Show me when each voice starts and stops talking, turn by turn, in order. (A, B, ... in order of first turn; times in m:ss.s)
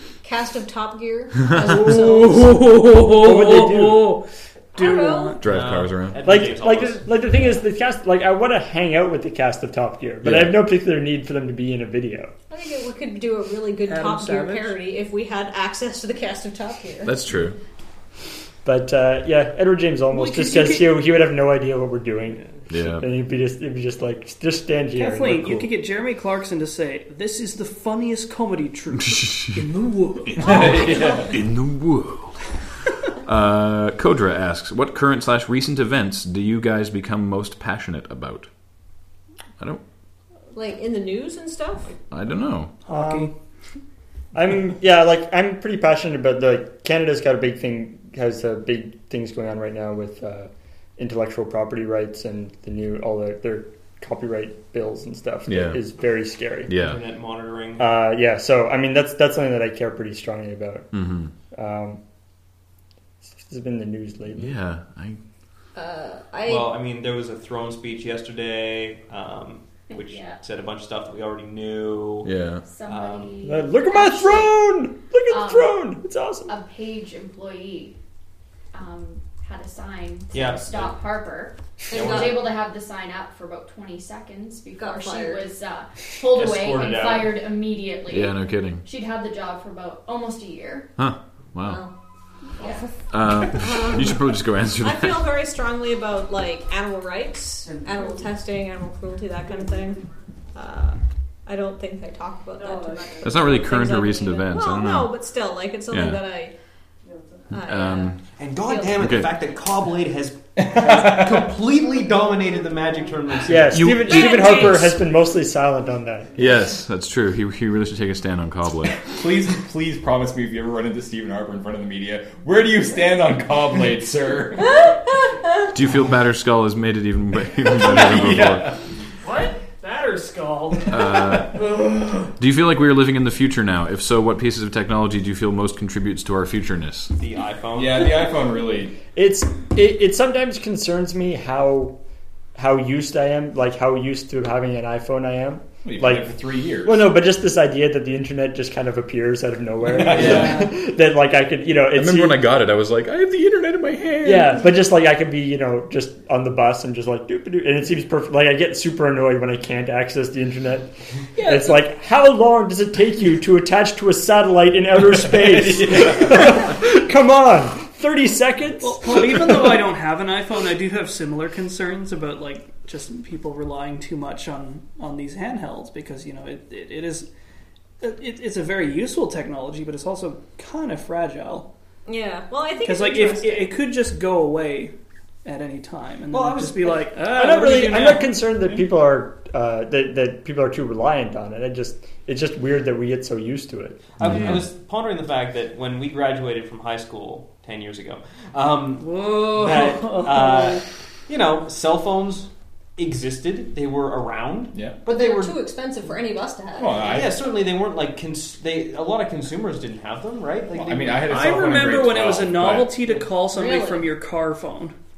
0:00.2-0:02.5 A
0:01.6-0:05.5 B
0:02.0-0:02.5 C
0:03.1-0:04.2 C
0:04.7-0:05.4 A
0:05.4-0:06.3 D
0:05.4-0:07.1 E
0:06.2-0:12.3 C
0:10.2-0:10.6 D
0:12.5-0:17.2 A
0:13.9-0:14.7 B
0:17.0-0:17.6 D
0:18.6-0:25.7 C
0:20.1-0:21.0 B
0:22.7-0:23.1 D
0:24.9-0:30.7 B
0:29.1-0:29.7 D
0:30.3-0:32.5 D
0:30.4-0:31.3 F
0:30.8-0:31.2 A
0:33.2-0:38.5 D
0:40.5-0:41.9 A
0:42.1-0:42.7 D
0:42.8-0:43.3 B
0:42.9-0:43.3 C
0:44.3-0:56.7 C
0:55.5-0:55.8 D
0:56.7-0:57.0 D
0:56.8-0:57.9 E
0:57.8-1:00.9 C
1:00.9-1:01.3 D
1:01.5-1:02.0 C
1:03.4-1:04.6 C
1:04.4-1:05.2 D
1:05.7-1:06.7 A
1:06.4-1:12.3 E
1:09.9-1:10.4 G
1:12.2-1:12.6 D
1:12.6-1:14.6 G
1:12.8-1:13.3 E
1:13.4-1:16.5 C
1:15.3-1:15.8 G
1:16.5-1:18.0 G
1:18.7-1:30.9 G
1:20.3-1:21.0 E
1:21.9-1:22.5 A
1:21.9-1:22.5 E
1:24.8-1:25.4 A
1:26.3-1:27.4 E
1:28.1-1:28.8 D
1:31.0-1:31.8 D
1:31.6-1:31.9 A
1:32.6-1:32.8 G
1:33.1-1:35.2 D
1:33.3-1:40.0 A
1:40.5-1:46.5 A
1:42.7-1:43.0 B
1:43.2-1:45.1 D
1:45.9-1:46.2 D
1:47.5-1:49.0 A
1:47.5-1:48.2 D
1:48.4-1:53.9 E
1:48.9-1:49.3 D
1:50.6-1:51.5 F
1:53.4-1:56.4 C
1:53.7-1:54.9 D
1:54.0-1:54.9 A
1:54.1-1:54.6 B
1:56.4-1:59.1 D
1:59.0-2:04.9 F
2:05.7-2:08.7 D
2:07.7-2:08.8 F
2:09.2-2:12.3 B
2:10.9-2:11.6 D
2:12.4-2:17.1 D
2:17.2-2:18.3 E
2:17.7-2:19.0 F
2:19.1-2:22.0 C
2:22.6-2:26.3 C
2:25.8-2:27.1 F
2:26.8-2:32.5 C
2:29.9-2:30.7 F
2:30.0-2:30.7 B
2:31.9-2:34.6 D
2:34.2-2:49.8 C
2:41.4-2:41.8 B
2:45.3-2:46.6 F
2:48.8-2:57.3 B
2:58.0-3:01.7 B
3:02.0-3:03.7 A
3:02.8-3:04.9 B
3:05.4-3:08.4 B
3:06.3-3:07.1 E
3:07.3-3:14.0 C
3:14.2-3:25.6 E
3:14.2-3:14.6 D
3:19.0-3:20.8 B
3:25.1-3:27.2 A
3:26.7-3:27.4 F
3:27.1-3:31.3 E
3:30.7-3:33.0 F
3:31.3-3:34.9 B
3:33.5-3:34.1 A